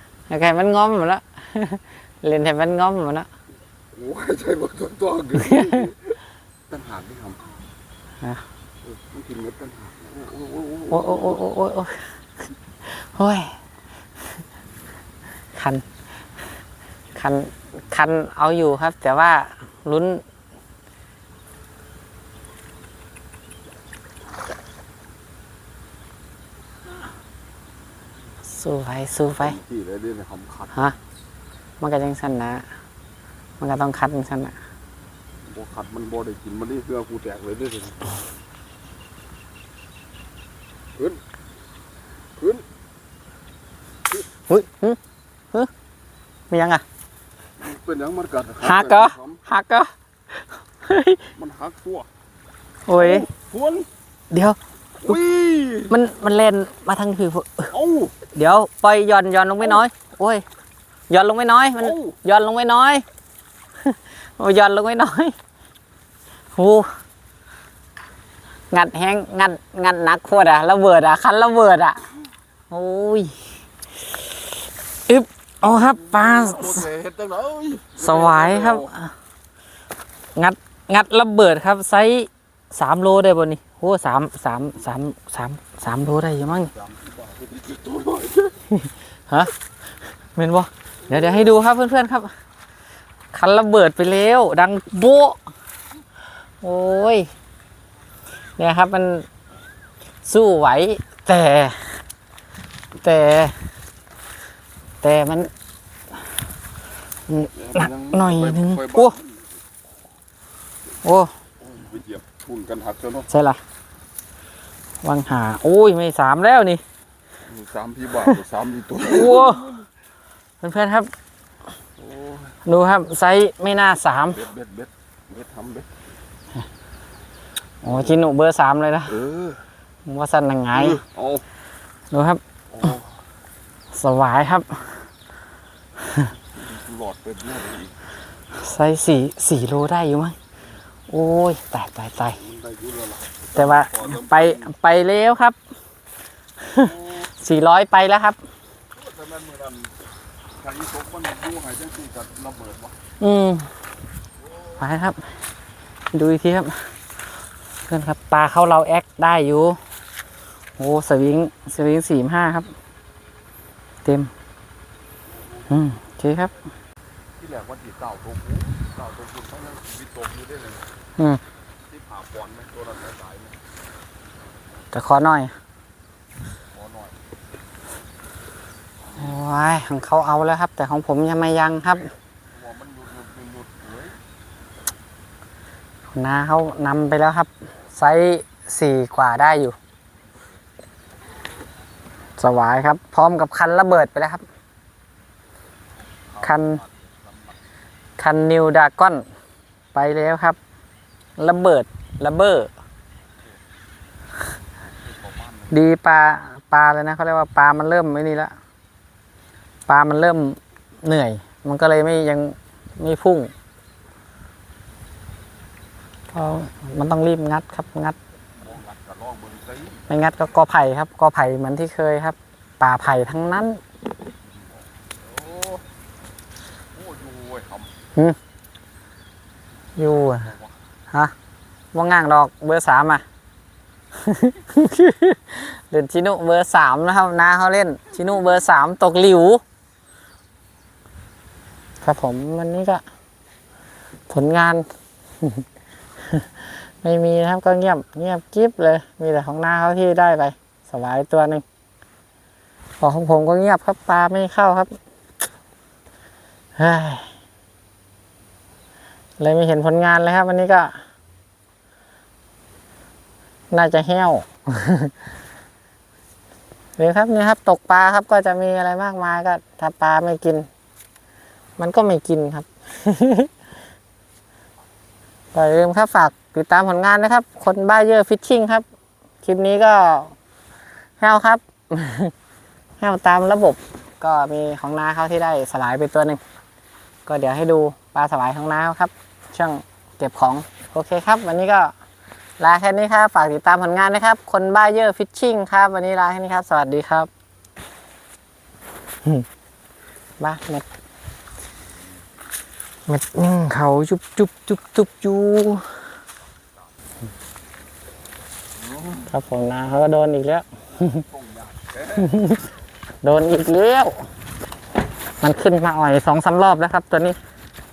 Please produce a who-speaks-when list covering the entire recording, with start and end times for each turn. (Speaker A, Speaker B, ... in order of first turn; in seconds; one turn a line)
Speaker A: 0.3-3.3
Speaker B: 3.9-7.5
Speaker A: 5.5-5.8
Speaker B: 8.8-11.4
Speaker A: 10.9-12.1
Speaker A: 12.8-13.6
Speaker A: 15.6-15.8
Speaker A: 17.2-20.2
Speaker A: 28.6-29.6
Speaker B: 29.4-30.9
Speaker A: 31.8-32.7
Speaker A: 33.6-34.6
Speaker B: 35.5-38.2
Speaker B: 42.4-42.6
Speaker A: 44.5-45.0
Speaker A: 46.5-46.8
Speaker B: 47.6-49.4
Speaker A: 48.6-51.3
Speaker B: 51.4-52.1
Speaker A: 52.9-53.3
Speaker B: 52.9-53.9
Speaker A: 54.3-54.6
Speaker B: 55.0-56.0
Speaker A: 55.9-57.7
Speaker B: 57.7-58.1
Speaker A: 58.3-60.5
Speaker A: 61.1-63.0
Speaker B: 61.8-62.2
Speaker A: 63.8-65.3
Speaker A: 66.5-66.9
Speaker A: 68.7-72.0
Speaker A: 72.7-73.5
Speaker A: 75.1-76.9
Speaker B: 75.6-78.9
Speaker A: 78.0-79.1
Speaker A: 80.3-86.7
Speaker B: 86.7-88.6
Speaker A: 88.7-89.5
Speaker A: 90.3-92.3
Speaker B: 91.1-91.5
Speaker A: 93.3-95.4
Speaker A: 96.6-97.3
Speaker A: 98.6-99.3
Speaker A: 100.2-102.0
Speaker A: 103.0-103.6
Speaker A: 105.0-105.5
Speaker A: 107.3-109.2
Speaker B: 107.5-109.5
Speaker A: 111.0-111.3
Speaker B: 111.6-113.3
Speaker A: 113.3-113.6
Speaker A: 115.0-116.8
Speaker B: 117.5-119.7
Speaker A: 119.1-119.8
Speaker A: 120.6-121.1
Speaker B: 122.0-122.6
Speaker A: 122.7-124.5
Speaker B: 124.3-125.9
Speaker A: 127.8-129.2
Speaker B: 127.9-128.2
Speaker B: 129.1-129.6
Speaker A: 130.1-131.0
Speaker B: 130.7-131.5
Speaker A: 132.1-132.4
Speaker B: 132.7-133.1
Speaker A: 133.9-134.8
Speaker B: 136.5-137.9
Speaker A: 138.5-140.4
Speaker A: 141.1-142.4
Speaker B: 142.4-144.7
Speaker A: 143.6-145.6
Speaker A: 146.6-148.4
Speaker B: 146.8-147.3
Speaker B: 148.9-149.9
Speaker B: 150.6-153.0
Speaker A: 153.2-153.7
Speaker A: 154.8-155.2
Speaker A: 156.1-156.9
Speaker A: 157.9-159.8
Speaker A: 160.8-162.7
Speaker A: 164.1-164.3
Speaker A: 165.7-166.6
Speaker B: 167.4-170.8
Speaker B: 171.9-173.6
Speaker A: 174.9-175.5
Speaker B: 176.7-177.2
Speaker B: 179.1-179.4
Speaker A: 179.1-182.1
Speaker B: 182.5-184.2
Speaker A: 186.1-189.8
Speaker A: 192.4-194.4
Speaker B: 196.3-197.6
Speaker A: 196.4-196.8
Speaker A: 198.2-199.3
Speaker A: 199.9-200.6
Speaker A: 201.4-202.7
Speaker B: 204.8-205.8
Speaker A: 205.7-208.6
Speaker A: 209.9-213.5
Speaker A: 216.3-218.2
Speaker B: 218.6-220.1
Speaker A: 220.1-223.8
Speaker B: 224.4-225.8
Speaker B: 226.9-227.9
Speaker A: 230.0-230.5
Speaker B: 230.3-230.8
Speaker A: 231.9-233.2
Speaker A: 234.2-239.6
Speaker A: 242.0-243.0
Speaker A: 244.3-244.9
Speaker A: 246.2-251.7
Speaker A: 253.0-255.0
Speaker A: 256.8-257.3
Speaker A: 259.4-261.0
Speaker A: 263.7-265.1
Speaker A: 267.0-270.7
Speaker A: 271.8-273.5
Speaker A: 275.5-278.9
Speaker A: 279.4-280.3
Speaker A: 281.2-282.3
Speaker A: 283.0-286.4
Speaker A: 287.3-291.9
Speaker A: 292.6-297.3
Speaker A: 300.4-300.9
Speaker A: 303.1-306.0
Speaker B: 308.8-309.2
Speaker A: 309.2-311.2
Speaker B: 311.0-312.4
Speaker A: 312.2-312.6
Speaker A: 313.2-314.2
Speaker A: 315.4-317.4